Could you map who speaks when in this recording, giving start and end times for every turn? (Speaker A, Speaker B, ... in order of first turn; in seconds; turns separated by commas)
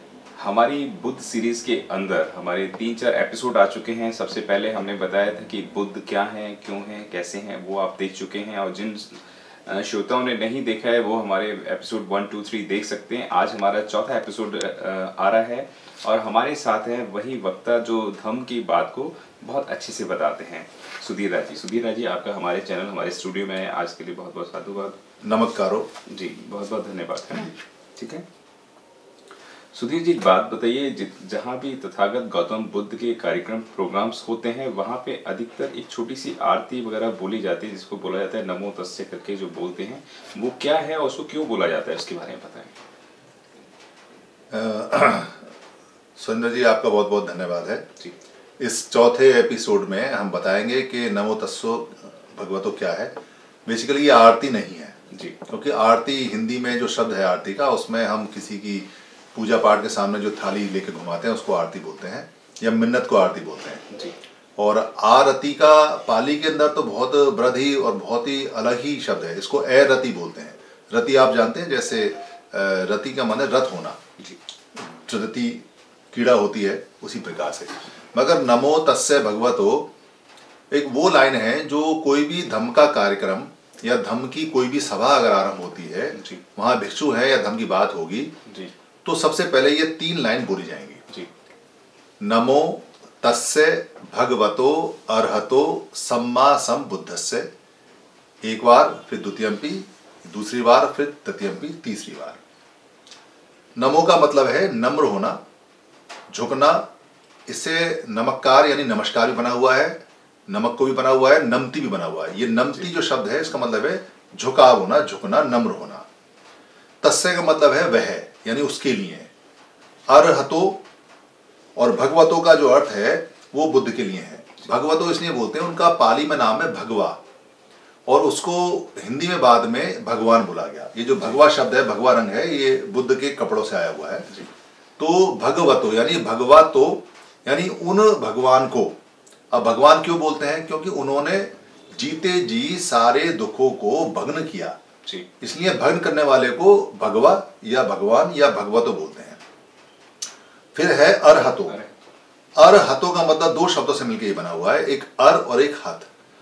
Speaker A: 0.4-25.0, Speaker B: 25.2-25.9, Speaker A: 26.1-28.2, Speaker A: 29.7-42.7, Speaker B: 44.5-45.5, Speaker B: 46.2-47.9, Speaker B: 48.6-53.1, Speaker B: 53.7-55.0, Speaker A: 55.1-55.4, Speaker B: 55.5-63.9, Speaker B: 64.6-74.0, Speaker B: 74.8-79.9, Speaker B: 80.7-88.3, Speaker A: 86.1-86.4, Speaker A: 88.5-88.7, Speaker B: 89.0-91.0, Speaker B: 92.2-97.5, Speaker B: 98.4-102.4, Speaker B: 103.8-105.4, Speaker B: 106.3-106.9, Speaker B: 107.5-116.1, Speaker B: 117.0-119.3, Speaker B: 120.1-120.8, Speaker B: 121.8-127.2, Speaker B: 128.1-134.3, Speaker B: 135.0-139.0, Speaker B: 139.5-144.8, Speaker B: 145.4-149.4, Speaker B: 150.8-151.8, Speaker A: 151.7-151.9, Speaker B: 152.6-156.1